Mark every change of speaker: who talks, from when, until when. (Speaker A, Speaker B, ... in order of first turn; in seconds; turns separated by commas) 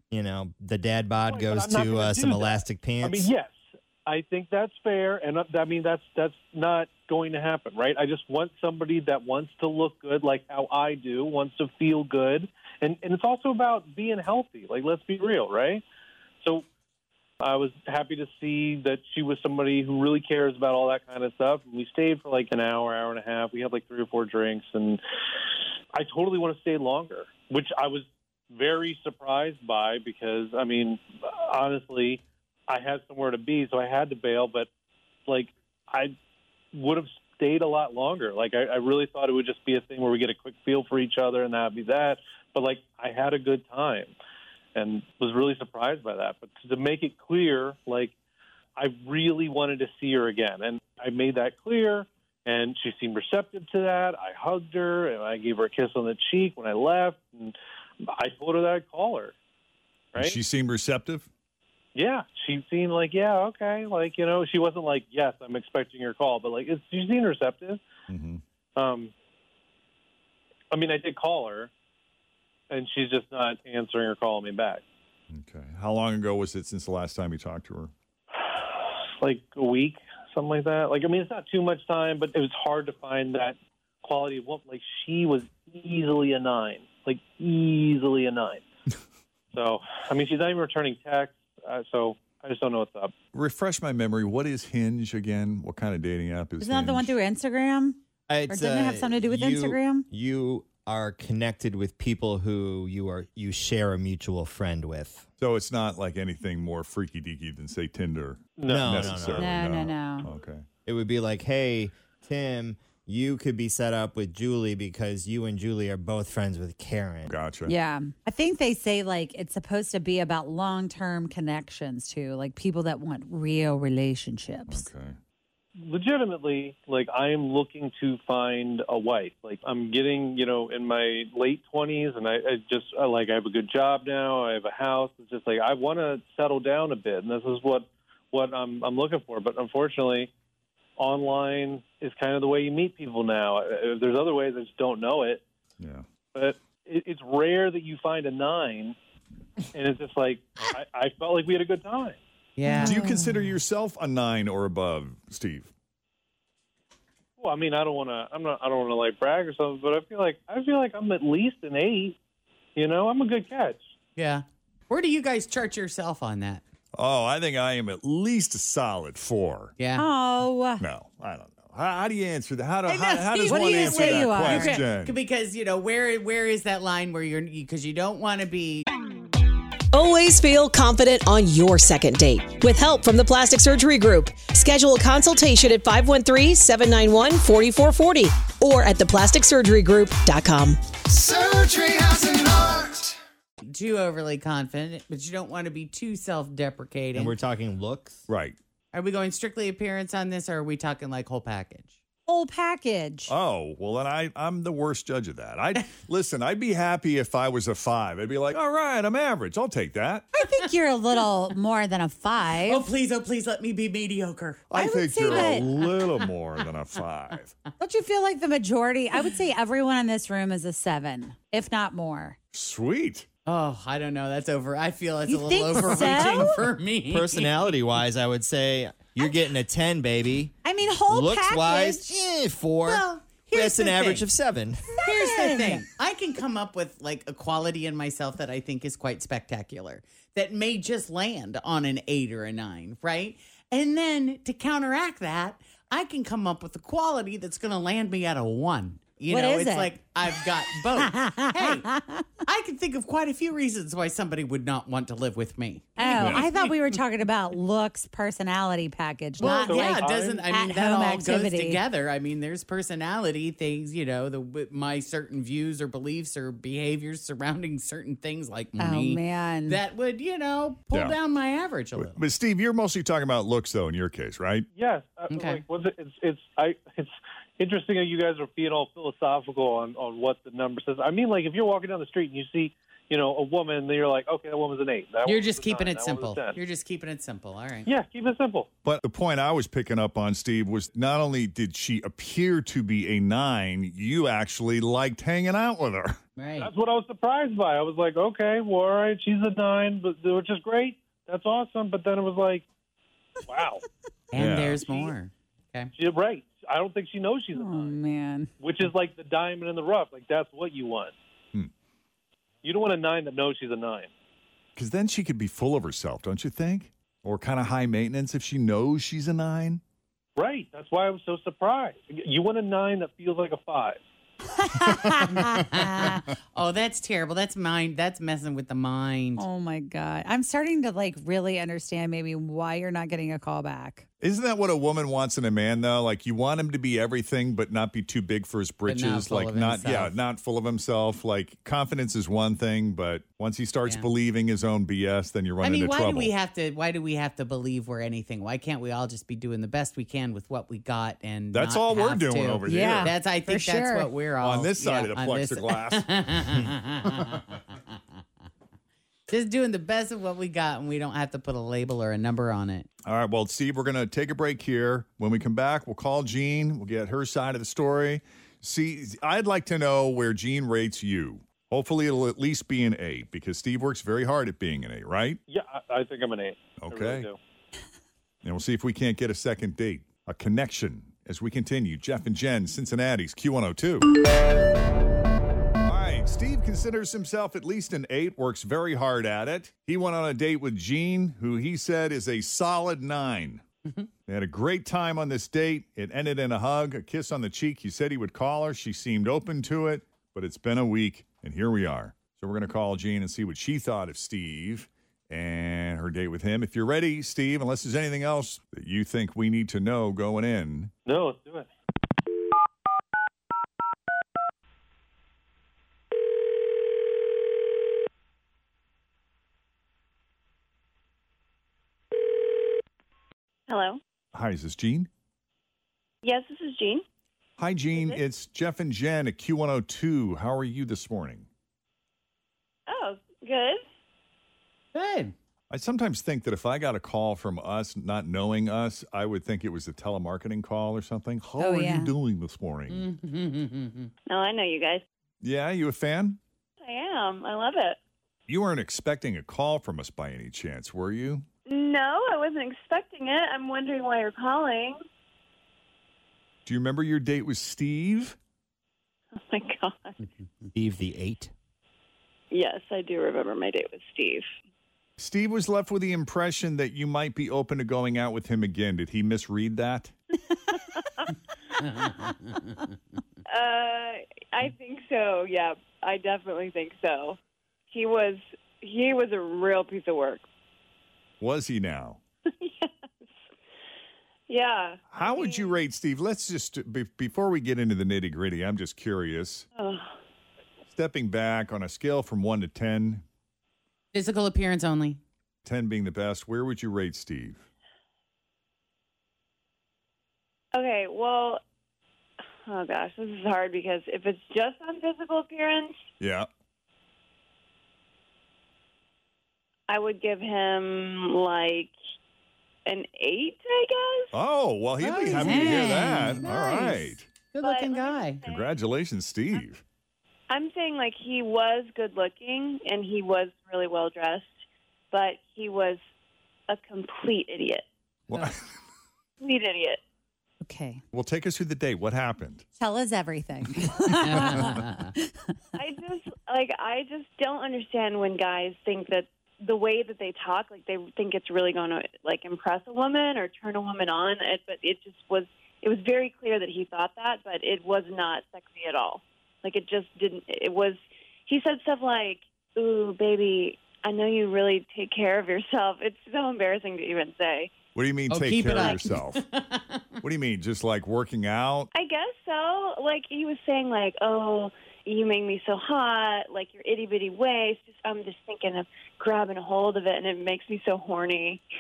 Speaker A: 0.1-3.3, Speaker B: 1.3-3.5, Speaker B: 4.1-15.8, Speaker B: 17.4-25.0, Speaker B: 25.9-34.7, Speaker B: 35.3-36.1, Speaker B: 36.7-44.1, Speaker B: 44.8-48.1, Speaker B: 48.8-57.5, Speaker B: 58.0-59.3, Speaker C: 60.2-61.3, Speaker B: 62.0-67.8, Speaker C: 68.1-68.4, Speaker B: 68.8-69.1, Speaker B: 70.7-71.7, Speaker B: 72.7-74.8, Speaker C: 75.3-77.9, Speaker B: 79.2-88.6, Speaker B: 89.5-93.1, Speaker C: 93.3-97.2, Speaker D: 96.6-98.0, Speaker A: 98.3-105.3, Speaker D: 98.5-100.1, Speaker C: 105.4-110.6, Speaker B: 108.6-109.1, Speaker A: 108.7-109.6, Speaker D: 109.4-110.3, Speaker A: 110.9-117.3, Speaker C: 117.2-117.8, Speaker D: 117.7-124.9, Speaker C: 124.7-125.2, Speaker B: 125.8-140.3, Speaker B: 141.0-145.4, Speaker C: 145.8-146.1, Speaker B: 146.3-149.0, Speaker B: 149.7-152.2, Speaker E: 152.6-153.0, Speaker D: 152.7-153.4, Speaker C: 152.8-155.7, Speaker B: 157.4-162.2, Speaker B: 162.8-163.9, Speaker E: 164.2-166.6, Speaker C: 167.0-169.7, Speaker E: 169.8-170.1, Speaker D: 170.0-170.8, Speaker C: 170.8-175.1, Speaker D: 172.9-174.8, Speaker E: 173.5-178.8, Speaker F: 179.9-190.8, Speaker E: 193.6-197.4, Speaker A: 197.1-198.2, Speaker C: 198.3-198.6, Speaker E: 198.9-202.0, Speaker D: 202.3-203.3, Speaker C: 203.3-210.3, Speaker E: 210.4-211.3, Speaker D: 210.4-212.8, Speaker E: 212.4-214.6, Speaker C: 214.7-217.5, Speaker D: 214.8-215.7, Speaker E: 215.3-216.7, Speaker D: 217.8-222.4, Speaker C: 222.5-223.3, Speaker E: 223.5-227.7, Speaker D: 225.3-226.7, Speaker A: 227.1-230.5, Speaker D: 230.6-232.0, Speaker A: 231.1-234.8, Speaker E: 232.9-233.4, Speaker D: 233.5-234.2, Speaker D: 234.9-235.8, Speaker E: 235.1-257.2, Speaker D: 249.3-249.8, Speaker D: 256.0-261.8, Speaker C: 256.1-256.5, Speaker B: 259.4-260.5, Speaker E: 259.4-272.2, Speaker D: 268.8-269.8, Speaker C: 270.9-271.2, Speaker C: 271.9-274.7, Speaker B: 274.8-286.6, Speaker E: 275.3-275.6, Speaker E: 285.2-287.9, Speaker B: 287.9-288.7, Speaker C: 288.8-296.1, Speaker E: 296.4-296.7, Speaker B: 296.6-302.6, Speaker B: 303.5-303.8, Speaker E: 304.3-305.9, Speaker C: 304.3-304.9, Speaker B: 305.9-308.0, Speaker D: 307.5-308.5, Speaker B: 308.6-311.1, Speaker B: 312.6-314.1, Speaker C: 314.8-319.8, Speaker B: 320.4-324.0, Speaker D: 324.8-325.4, Speaker E: 325.2-329.5, Speaker D: 329.4-334.0, Speaker C: 334.2-346.3, Speaker E: 338.9-340.2, Speaker E: 345.6-358.2, Speaker C: 351.5-353.2, Speaker D: 352.7-354.1, Speaker C: 354.4-356.4, Speaker E: 359.3-362.9, Speaker C: 363.1-375.4, Speaker B: 375.5-377.4, Speaker C: 376.8-377.3, Speaker C: 378.4-384.1, Speaker C: 385.8-393.6, Speaker C: 394.3-410.9, Speaker B: 411.1-411.7, Speaker G: 423.7-424.0, Speaker C: 424.3-425.1, Speaker G: 426.2-427.0, Speaker C: 427.6-431.5, Speaker G: 427.9-428.2, Speaker G: 432.9-433.8, Speaker E: 434.9-435.3, Speaker C: 435.7-443.1, Speaker D: 441.6-442.1, Speaker E: 442.9-444.1, Speaker G: 444.3-445.0, Speaker C: 445.4-446.4, Speaker G: 446.8-448.0, Speaker C: 448.5-451.5, Speaker G: 451.7-455.0, Speaker C: 456.7-458.4, Speaker G: 459.5-460.2, Speaker A: 460.7-461.5, Speaker G: 462.5-464.5, Speaker C: 465.2-470.1, Speaker G: 470.7-471.3, Speaker E: 471.8-472.9, Speaker G: 473.5-477.4, Speaker G: 477.9-480.4, Speaker C: 481.4-482.2, Speaker G: 482.6-483.4, Speaker G: 484.5-485.8, Speaker C: 485.1-489.7, Speaker G: 489.8-490.1, Speaker C: 490.9-493.2, Speaker E: 494.1-495.2, Speaker C: 495.6-497.6, Speaker G: 500.8-501.6, Speaker G: 502.6-505.9, Speaker C: 506.2-506.5, Speaker G: 509.9-511.9, Speaker G: 512.9-514.3, Speaker C: 514.3-517.4, Speaker E: 515.0-518.5, Speaker D: 515.4-516.3, Speaker G: 517.6-518.7, Speaker C: 518.5-519.8, Speaker G: 520.5-524.5, Speaker G: 525.1-526.0, Speaker G: 526.7-527.9, Speaker C: 528.3-528.6, Speaker G: 529.4-530.0, Speaker D: 530.6-531.0, Speaker C: 531.1-532.7, Speaker D: 532.8-534.9, Speaker E: 534.1-535.1, Speaker G: 535.8-557.7, Speaker C: 558.0-559.4, Speaker E: 558.3-560.2, Speaker C: 560.2-561.9, Speaker G: 561.9-571.6